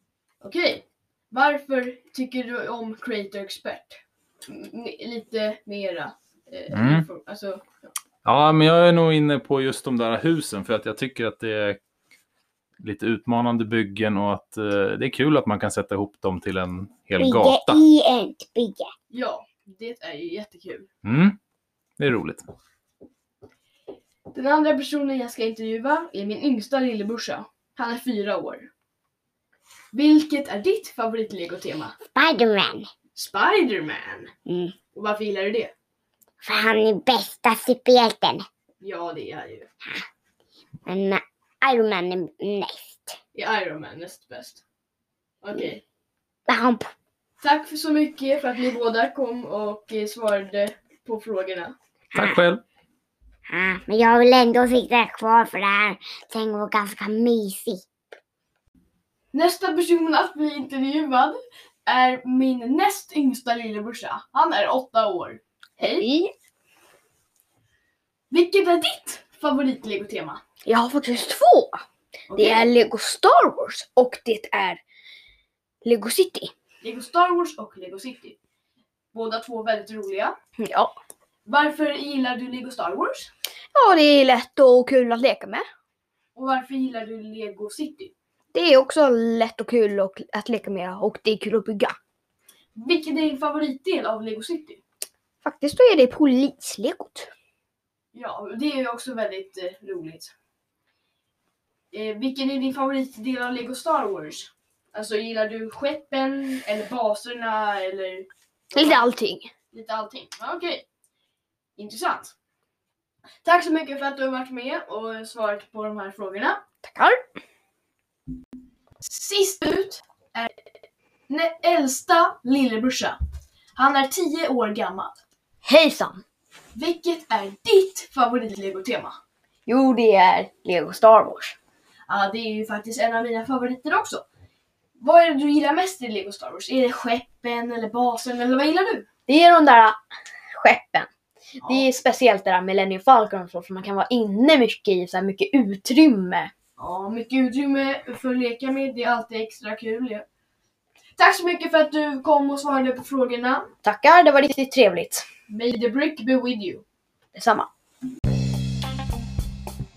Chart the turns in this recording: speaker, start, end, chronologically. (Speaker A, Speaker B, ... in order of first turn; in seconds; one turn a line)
Speaker A: 0.4-7.9
Speaker B: 6.7-7.1
Speaker B: 8.2-11.8
Speaker B: 12.8-17.8
Speaker C: 17.2-18.9
Speaker A: 19.1-20.9
Speaker B: 21.1-21.4
Speaker B: 22.0-22.4
Speaker A: 24.3-28.7
Speaker A: 29.9-32.0
Speaker C: 32.1-32.9
Speaker A: 33.1-34.3
Speaker C: 34.5-34.8
Speaker A: 34.9-35.7
Speaker C: 36.4-38.5
Speaker A: 38.8-39.7
Speaker C: 40.9-43.2
Speaker A: 43.3-44.6
Speaker A: 45.4-45.8
Speaker C: 46.5-46.9
Speaker A: 47.4-51.8
Speaker B: 52.1-52.6
Speaker C: 53.5-57.8
Speaker A: 59.3-66.1
Speaker D: 65.8-66.3
Speaker A: 68.3-70.4
Speaker D: 70.7-71.8
Speaker A: 72.3-72.7
Speaker D: 72.3-74.8
Speaker D: 75.8-76.5
Speaker A: 76.8-78.4
Speaker A: 79.1-80.3
Speaker D: 80.6-80.9
Speaker A: 81.5-83.3
Speaker D: 83.7-85.7
Speaker A: 86.3-88.1
Speaker D: 88.5-92.0
Speaker A: 92.8-94.8
Speaker D: 95.4-97.3
Speaker A: 98.1-100.3
Speaker A: 101.9-109.1
Speaker D: 108.7-109.5
Speaker A: 109.7-110.9
Speaker A: 111.8-112.4
Speaker A: 113.4-116.6
Speaker D: 116.8-117.2
Speaker A: 119.0-120.5
Speaker A: 121.3-123.2
Speaker A: 123.8-125.2
Speaker D: 125.7-126.2
Speaker A: 126.7-129.2
Speaker D: 129.7-131.6
Speaker A: 132.1-134.2
Speaker A: 135.0-139.1
Speaker D: 139.3-140.0
Speaker D: 140.5-146.5
Speaker A: 146.8-150.3
Speaker A: 151.2-153.7
Speaker D: 153.8-155.2
Speaker A: 155.5-156.8
Speaker D: 157.3-157.7